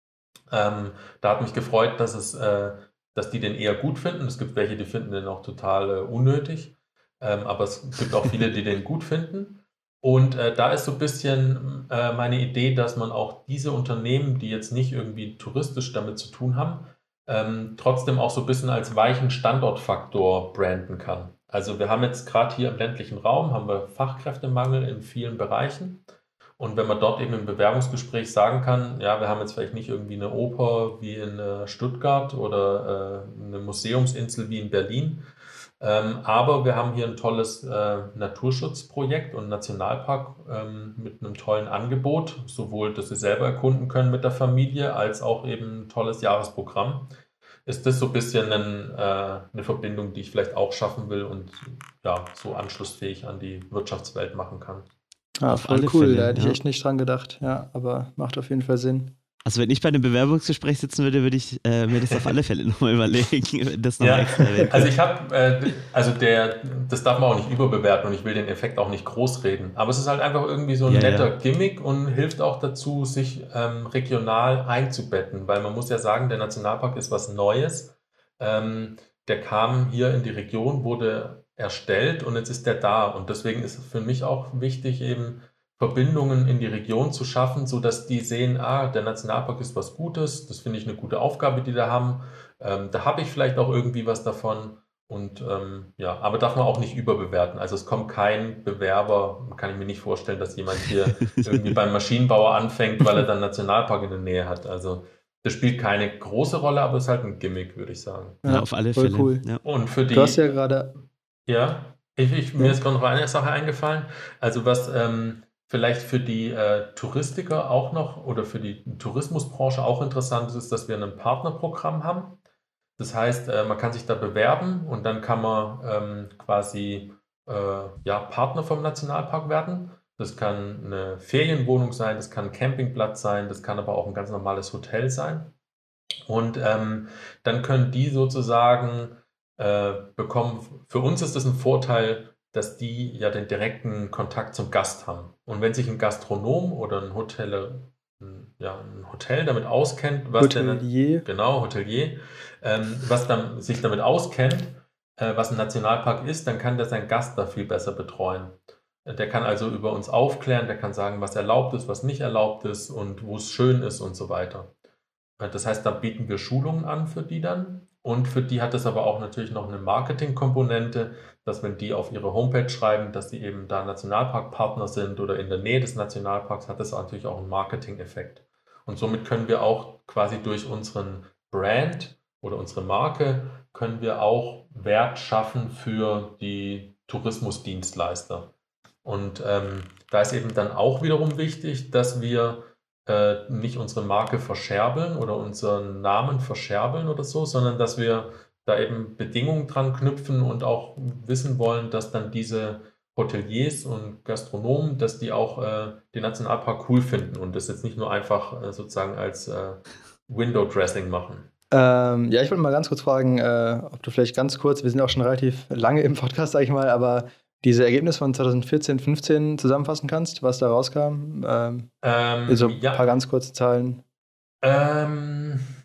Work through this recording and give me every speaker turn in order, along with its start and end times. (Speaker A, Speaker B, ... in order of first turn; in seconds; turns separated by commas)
Speaker A: 0.5-26.0, Speaker A: 26.6-35.2, Speaker A: 35.8-47.1, Speaker A: 47.6-54.9, Speaker B: 55.4-59.1, Speaker C: 55.5-56.6, Speaker C: 59.4-64.9, Speaker A: 64.0-108.4, Speaker C: 70.9-71.3, Speaker B: 108.4-109.4, Speaker C: 108.5-109.6, Speaker A: 109.6-110.4, Speaker B: 110.1-110.9, Speaker A: 111.5-122.4, Speaker A: 123.0-135.5, Speaker A: 136.3-164.7, Speaker B: 150.4-151.3, Speaker A: 165.4-188.5, Speaker A: 189.1-211.5, Speaker B: 211.7-221.9, Speaker A: 222.0-223.1, Speaker B: 222.5-224.0, Speaker A: 224.6-225.7